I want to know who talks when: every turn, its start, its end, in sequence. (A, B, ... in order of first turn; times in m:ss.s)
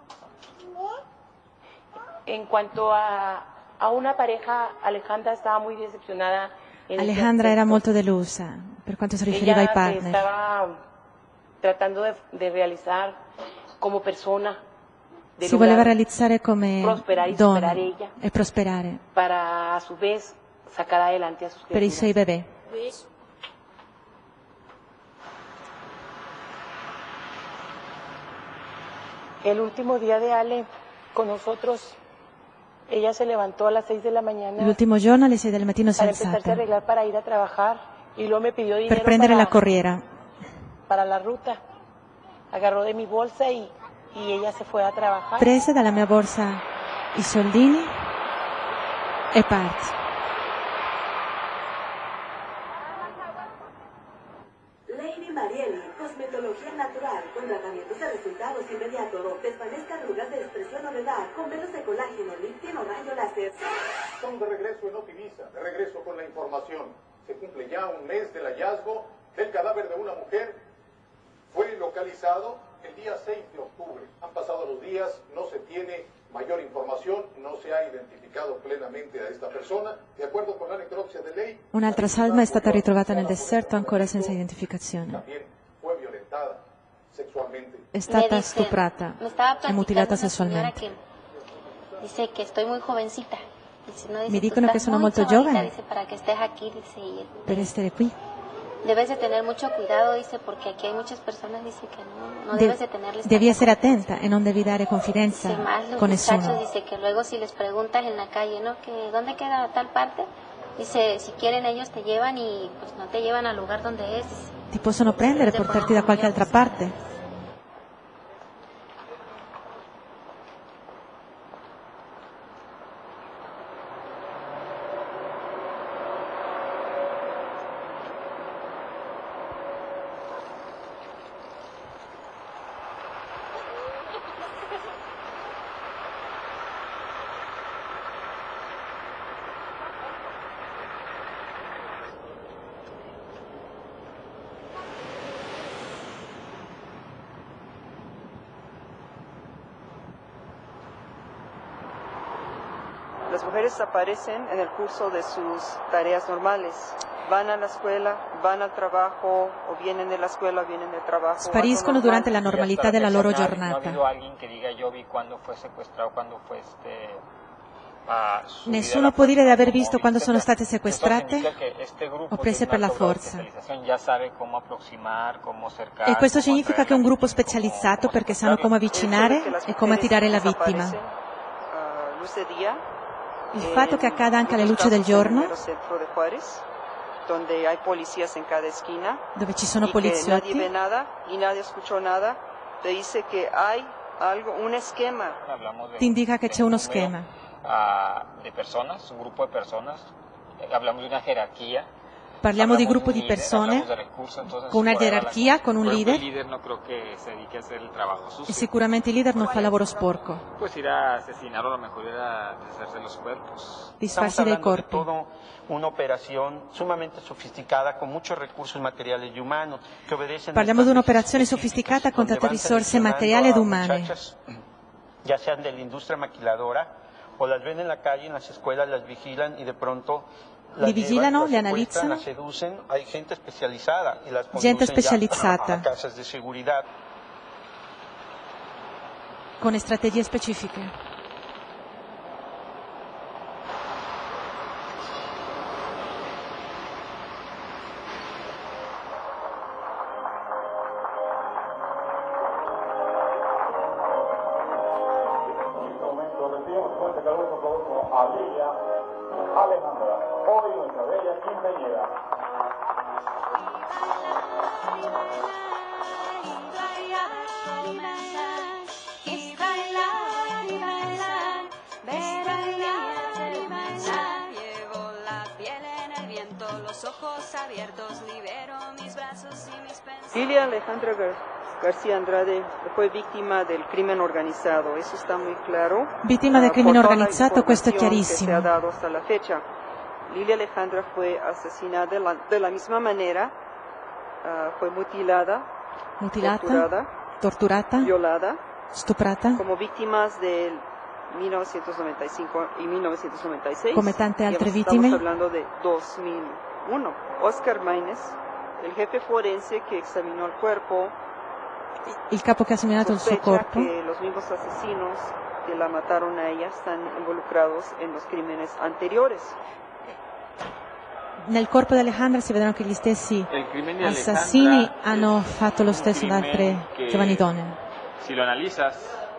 0:02.3-0:07.8 A
0:07.0-0:10.2 B
0:09.3-0:10.7 A
0:11.6-0:13.2 A
0:13.8-0:14.6 A
0:15.4-0:16.0 A
0:15.4-0:19.0 B
0:16.8-0:18.1 A
0:19.2-0:22.1 A
0:21.7-0:22.5 B
0:29.4-0:32.0 A
0:32.9-0:34.8 A
0:34.6-0:36.6 B
0:36.0-0:39.5 A
0:38.9-0:40.0 B
0:40.9-0:41.6 A
0:42.5-0:45.5 A
0:45.4-0:46.6 B
0:47.1-0:48.0 B
0:49.3-0:49.9 B
0:54.9-1:03.5 C
1:04.2-1:10.6 D
1:11.5-1:24.4 D
1:21.7-1:25.2 B
1:25.1-1:27.9 D
1:27.9-1:30.8 B
1:28.1-1:31.0 E
1:32.0-1:37.7 E
1:34.3-1:35.7 B
1:37.4-1:38.1 B
1:38.8-1:44.1 E
1:42.5-1:46.6 B
1:45.3-1:54.5 E
1:54.7-1:56.9 B
1:55.2-1:56.9 E
2:33.3-2:42.4 F
2:41.4-2:44.0 B
2:42.4-2:47.2 G
2:48.0-2:58.8 G
2:48.6-2:51.5 B
2:52.3-2:53.5 B
2:56.0-3:01.0 B
2:58.5-3:01.1 F
3:01.7-3:02.8 F
3:03.5-3:05.6 B
3:03.6-3:06.6 F
3:07.2-3:09.2 F
3:09.4-3:10.7 B
3:09.8-3:15.4 F
3:15.4-3:20.1 G
3:16.0-3:17.3 B
3:20.6-3:21.9 G
3:22.4-3:23.9 B
3:22.5-3:28.7 G
3:24.7-3:26.2 B
3:28.5-3:30.4 B
3:29.4-3:29.8 F
3:30.6-3:33.9 G
3:34.0-3:35.1 B
3:34.1-3:44.4 H
3:40.5-3:44.1 B
3:45.2-3:56.8 H
3:50.8-3:52.2 B
3:54.5-3:55.9 B
3:59.6-4:00.9 B
4:15.8-4:18.6 D
4:19.6-4:22.0 D
4:26.1-4:40.7 I
4:40.3-4:49.6 F
4:46.2-4:48.7 B
4:50.3-4:53.5 F
4:54.4-4:55.7 F
4:56.2-4:56.9 B
4:56.4-4:57.1 F
4:57.4-4:58.1 B
4:58.0-4:58.6 F
4:58.9-4:59.6 B
4:59.6-5:11.1 F
5:03.9-5:05.2 B
5:12.3-5:13.9 B
5:13.0-5:19.6 F
5:21.4-5:27.8 B
5:23.5-5:27.5 G
5:28.2-5:29.2 G